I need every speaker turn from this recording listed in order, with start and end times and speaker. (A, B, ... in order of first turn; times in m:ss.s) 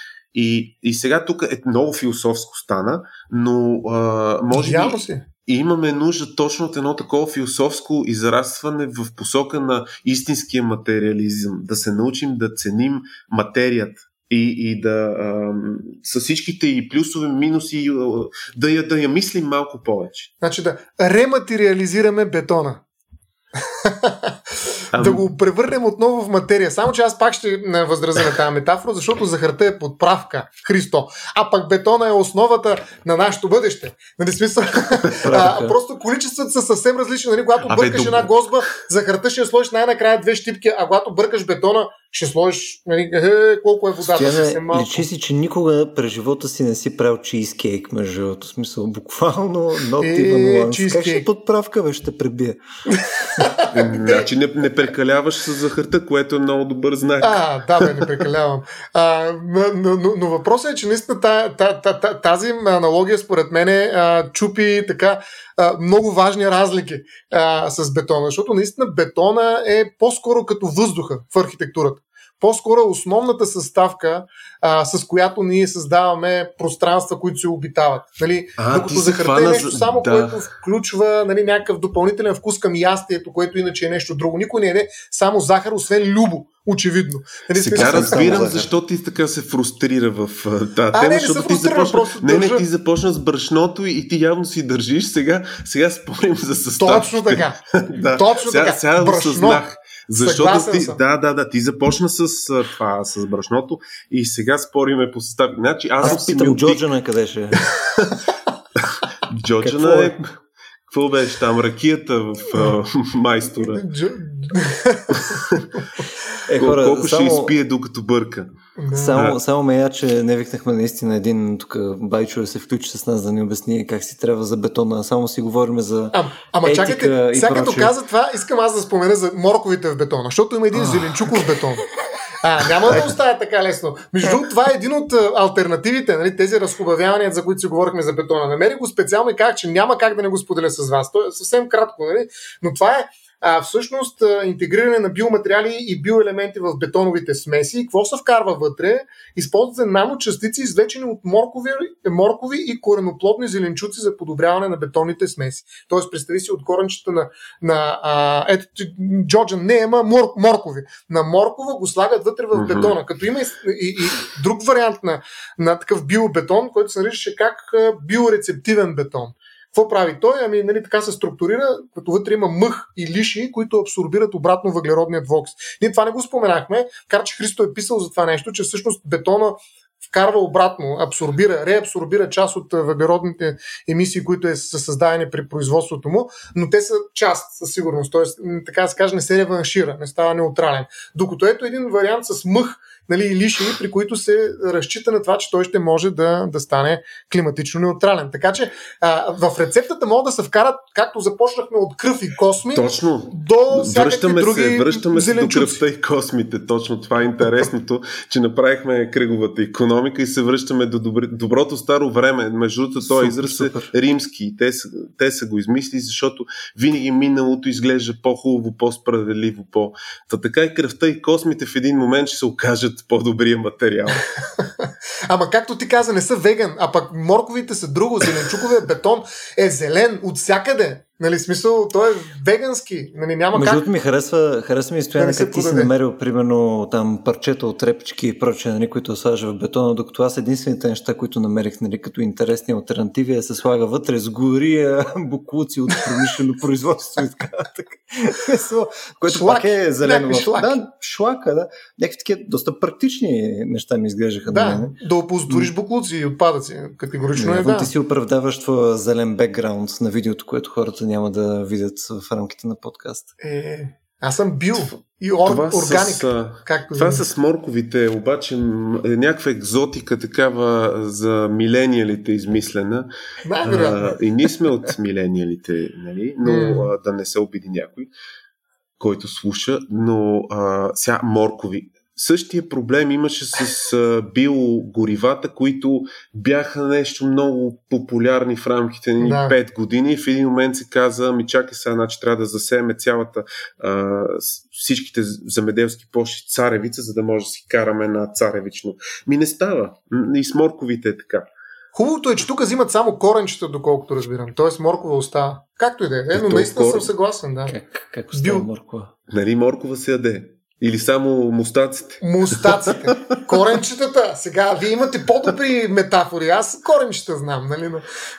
0:00.3-0:20.3 A
0:04.5-0:05.2 B
0:20.4-0:22.8 B
0:23.8-0:24.4 B
0:24.9-0:45.1 B
0:24.9-0:25.3 A
0:35.2-0:35.8 C
0:37.7-0:38.3 A
0:44.0-0:52.6 C
0:50.0-0:51.3 B
0:52.9-0:54.3 B
0:53.7-0:58.1 A
0:57.2-1:28.5 B
1:18.6-1:20.5 A
1:27.6-1:46.9 A
1:27.8-1:28.7 C
1:30.9-1:32.6 B
1:36.8-1:37.6 B
1:38.1-1:39.6 B
1:40.2-1:41.0 B
1:46.0-1:47.7 C
1:47.5-1:48.2 A
1:48.8-1:50.3 A
1:49.6-1:50.2 C
1:50.9-1:53.8 A
1:53.7-1:55.4 B
1:55.1-1:55.8 A
1:56.5-1:57.5 C
1:56.6-1:58.5 A
1:58.8-1:59.2 B
1:58.9-2:07.9 C
2:06.1-2:11.9 B
2:12.4-3:25.8 B
2:42.5-2:43.0 A
3:22.7-3:44.2 A
3:33.0-3:33.9 C
3:44.6-3:53.9 B
3:53.5-4:15.0 C
3:55.2-3:55.9 B
4:09.3-4:10.8 B
4:14.5-4:17.9 B
4:17.4-4:23.3 C
4:23.4-4:27.2 B
4:25.5-4:33.1 A
4:33.4-4:34.2 B
4:33.6-4:38.1 A
4:36.4-4:36.9 B
4:39.0-5:01.5 A
4:49.2-4:49.6 B
5:02.0-5:07.8 B
5:06.3-5:07.1 A
5:07.7-5:09.1 C
5:08.3-5:08.7 B
5:09.3-5:13.3 A
5:12.2-5:18.0 B